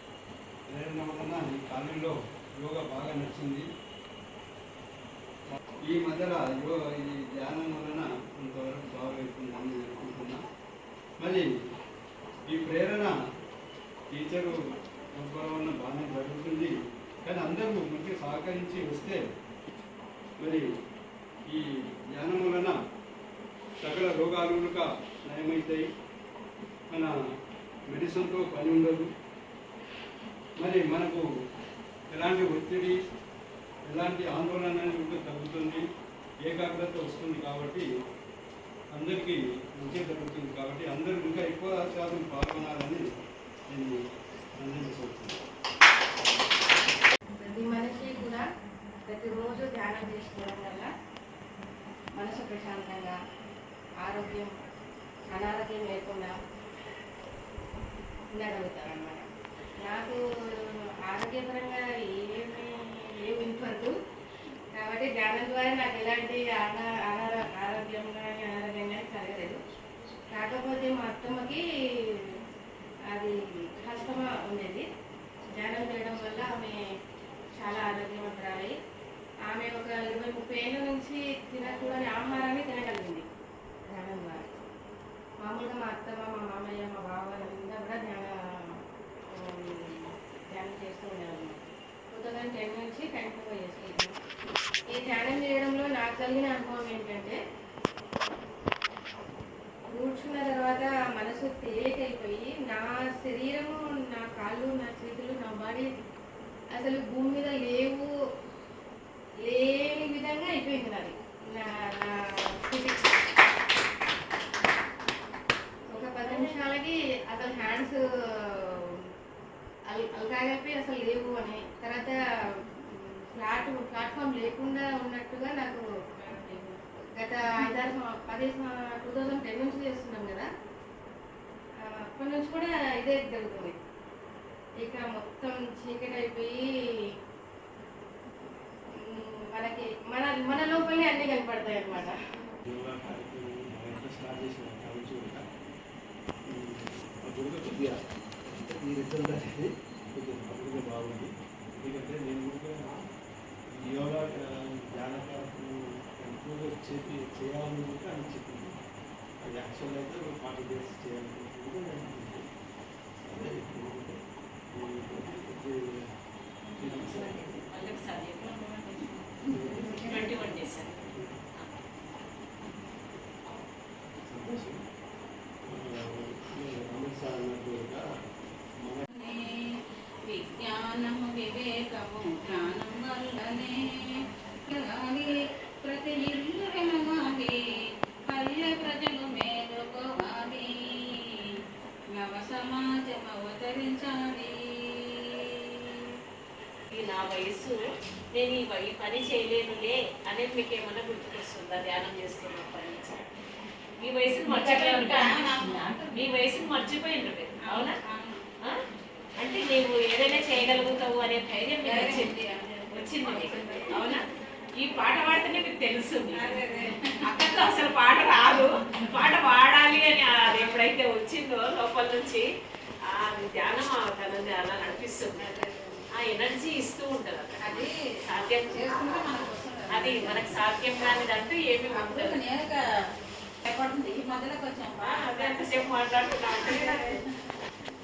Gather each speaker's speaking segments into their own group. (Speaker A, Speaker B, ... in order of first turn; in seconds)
Speaker A: 0.7-3.6, 5.5-10.4, 11.2-11.5, 12.5-13.2, 14.1-14.6, 15.2-16.7, 17.2-19.2, 20.4-20.7, 21.5-22.8, 23.8-25.9, 27.9-29.1, 30.6-31.2, 32.1-33.0, 33.9-35.8, 36.4-37.9, 38.9-43.0, 43.7-44.0, 44.6-45.4
Speaker B: 47.4-48.5, 49.1-50.9, 52.1-53.1, 54.0-54.5, 55.3-56.4, 58.3-59.2, 59.8-60.2, 61.1-63.9, 64.8-69.6, 70.3-71.6, 73.1-74.8, 75.5-76.8, 77.6-78.7, 79.5-83.2, 83.9-84.4, 85.4-88.3, 89.3-91.6, 92.1-94.2, 94.9-97.4, 99.9-105.9, 106.7-108.1, 109.5-113.1, 115.9-118.0, 118.6-119.0, 119.9-122.2, 122.9-130.5, 132.1-133.8, 134.8-136.6, 139.0-142.2
Speaker C: 142.7-145.4, 146.5-153.0, 153.7-158.8, 159.4-162.4, 163.2-164.2, 164.7-165.9, 166.8-167.4, 169.6-169.8, 174.3-174.8, 175.7-178.1, 178.8-179.0
Speaker D: 166.7-167.5, 168.4-170.6, 179.1-179.5, 180.3-183.8, 184.7-185.3, 185.8-187.5, 188.3-191.2, 192.2-195.3, 204.4-206.6, 207.6-208.4, 211.8-214.2, 216.3-217.4, 225.3-226.1, 227.6-227.9, 228.6-230.6, 231.9-232.8, 233.7-237.2
Speaker E: 167.4-168.6, 170.0-171.0, 196.9-197.8, 198.3-203.3, 204.0-207.9, 209.4-212.3, 212.9-214.2, 214.8-216.6, 217.2-222.5, 223.1-225.5, 226.2-229.1, 229.9-232.4, 235.0-237.2